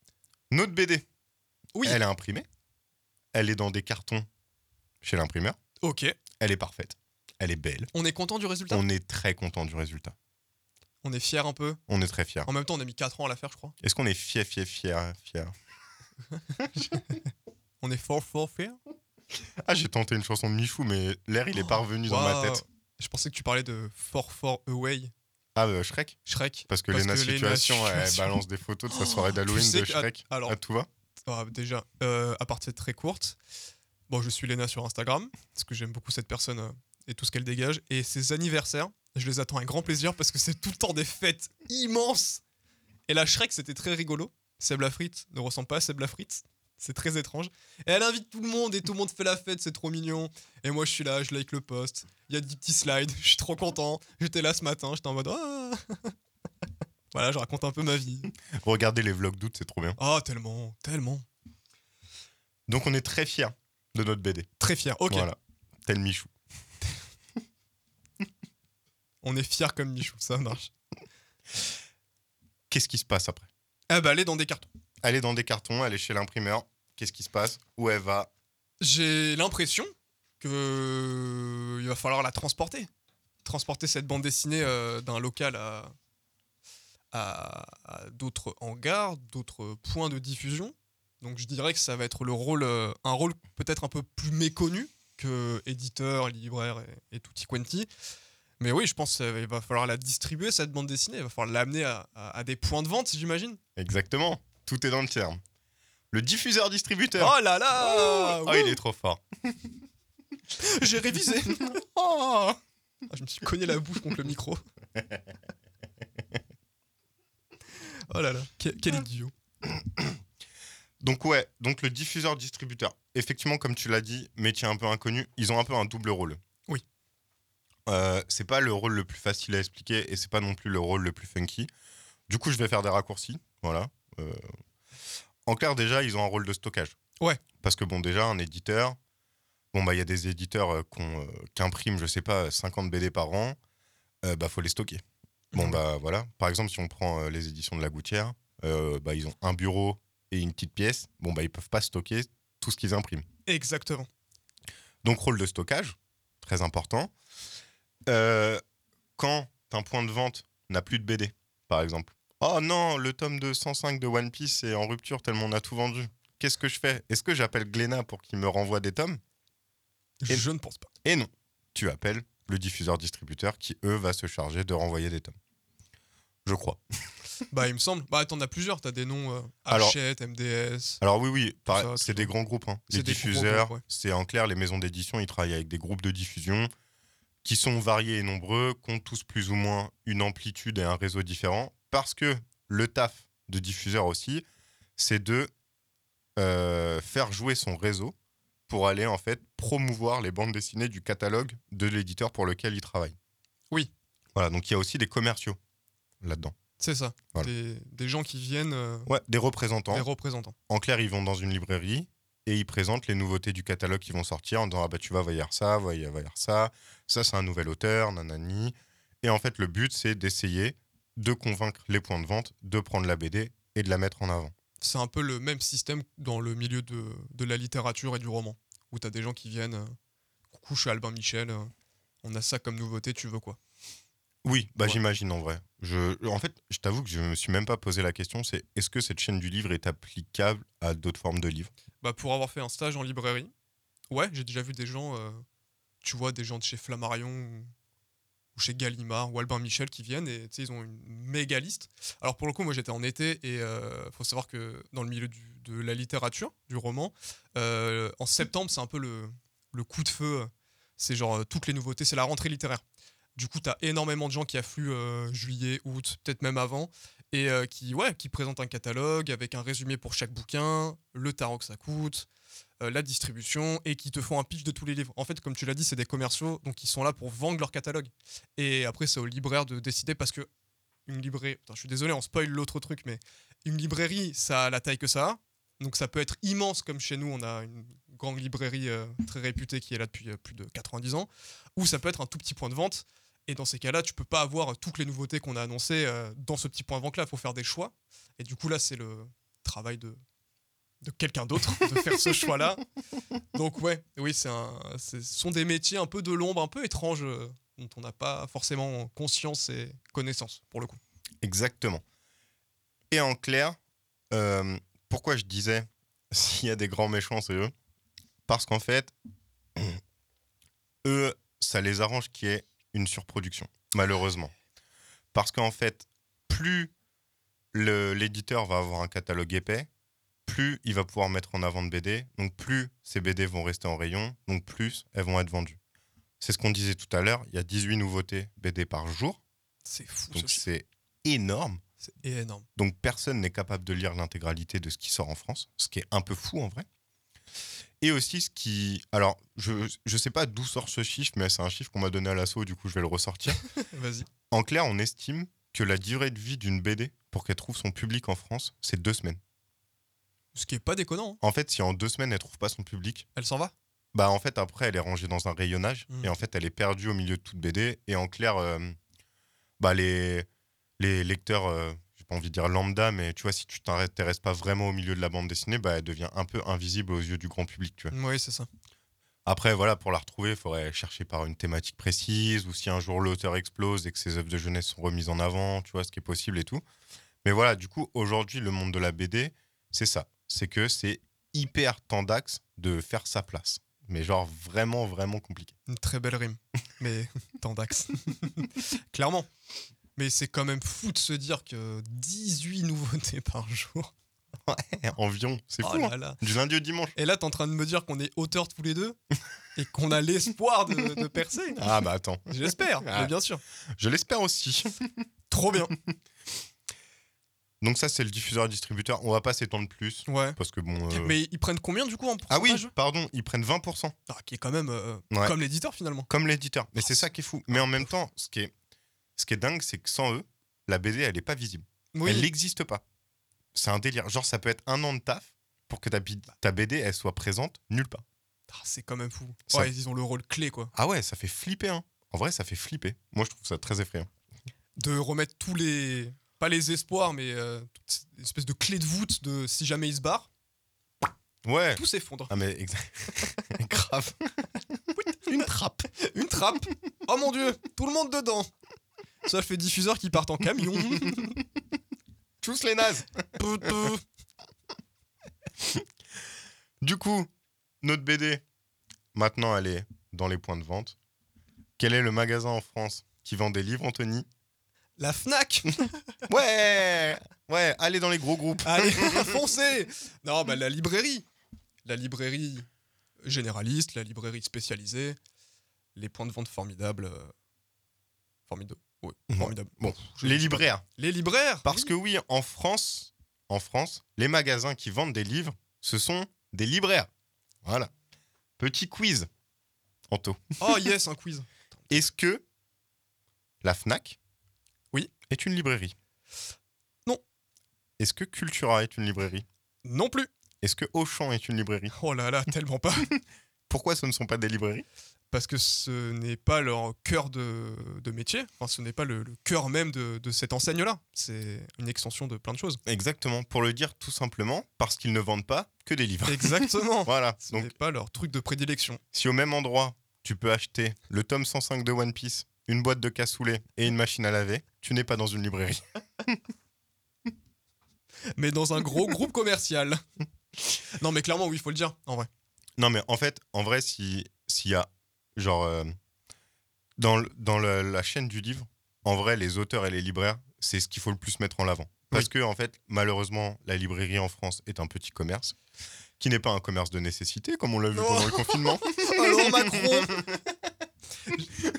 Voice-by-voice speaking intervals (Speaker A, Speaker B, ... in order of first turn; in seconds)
Speaker A: 0.5-1.1, 1.8-2.5, 3.3-4.3, 5.0-5.6, 6.4-7.9, 8.7-10.2, 11.9-12.5, 13.8-15.6, 19.6-22.6, 25.6-26.2, 26.7-30.9, 58.5-60.0, 62.7-64.5, 65.1-66.3, 72.7-73.5, 75.0-78.3, 103.8-105.4, 106.1-109.2, 111.4-112.6, 119.7-120.2, 121.0-126.4, 127.9-131.7, 132.3-134.4, 135.5-137.0, 137.6-139.0, 139.7-143.6, 144.2-145.0, 145.5-153.2, 155.0-157.1, 158.1-158.6, 159.2-169.2, 171.0-175.3, 176.4-176.8, 179.7-180.0, 181.0-186.7, 187.4-194.4, 195.0-195.5, 196.4-198.2, 198.7-203.2, 204.3-205.6, 206.2-206.5, 209.1-210.1, 210.7-224.5, 234.4-241.7, 311.4-312.0, 313.1-313.8, 314.3-317.7, 318.5-319.1, 321.0-324.5, 325.3-326.9, 327.7-329.9, 330.5-335.8, 336.4-339.4, 340.3-341.8, 342.8-346.9, 348.0-353.6, 354.5-359.4, 361.4-363.3, 364.1-369.0, 369.8-370.5, 371.0-378.1, 379.5-386.8, 387.4-395.8, 404.6-407.1, 411.8-413.3, 414.0-415.1, 417.8-421.4, 422.5-424.1, 425.3-425.6, 426.3-428.7, 429.4-433.0, 433.8-438.2, 440.9-444.3, 451.6-454.5, 455.4-456.1, 462.6-464.1, 467.0-467.5, 468.0-468.6, 469.3-471.2, 472.0-474.5, 476.5-479.6, 489.5-491.0, 491.9-497.3, 497.8-498.1, 498.8-499.5, 500.3-500.8, 502.1-502.6, 503.8-504.4, 505.5-506.1, 508.2-509.7, 510.8-512.1, 513.9-515.0, 523.1-527.9, 529.3-536.6, 543.0-546.1, 547.2-555.8, 556.4-560.5
Speaker B: 1.8-2.0, 5.8-6.2, 7.9-8.8, 11.0-11.8, 12.5-13.8, 16.8-17.2, 17.8-18.8, 21.6-25.1, 26.3-28.4, 28.9-30.6, 31.3-33.4, 34.1-42.4, 43.1-56.1, 57.1-58.3, 60.0-61.3, 64.6-65.3, 69.2-70.7, 73.9-74.7, 78.8-82.9, 83.5-85.9, 87.1-97.9, 98.6-103.6, 107.2-108.8, 110.6-111.7, 113.1-114.6, 118.1-119.3, 145.5-145.8, 153.5-154.1, 170.2-170.9, 177.5-181.0, 181.7-182.3, 182.9-183.8, 206.8-209.1, 209.9-210.6, 224.8-230.0, 230.5-231.7, 232.2-233.6, 242.0-243.5, 244.1-245.4, 246.0-247.7, 248.6-262.8, 263.4-272.3, 272.8-280.5, 281.1-300.2, 301.0-302.8, 303.5-311.0, 339.9-340.6, 342.2-342.7, 353.7-354.3, 360.6-361.4, 363.4-363.7, 378.1-378.7, 395.9-399.5, 400.2-404.1, 405.8-406.4, 407.2-409.2, 409.8-411.9, 412.5-413.6, 415.5-415.9, 420.3-420.6, 421.1-422.9, 424.3-426.3, 427.7-428.1, 432.1-432.5, 438.7-440.9, 445.0-450.5, 452.0-452.5, 456.1-458.7, 459.4-461.6, 463.6-464.2, 475.2-476.2, 478.8-481.5, 482.1-482.9, 483.4-485.4, 486.1-487.5, 488.7-492.1, 500.8-502.2, 510.1-510.5, 512.1-513.3, 515.5-523.0, 526.5-529.2, 538.5-540.2, 540.9-542.5, 558.1-560.5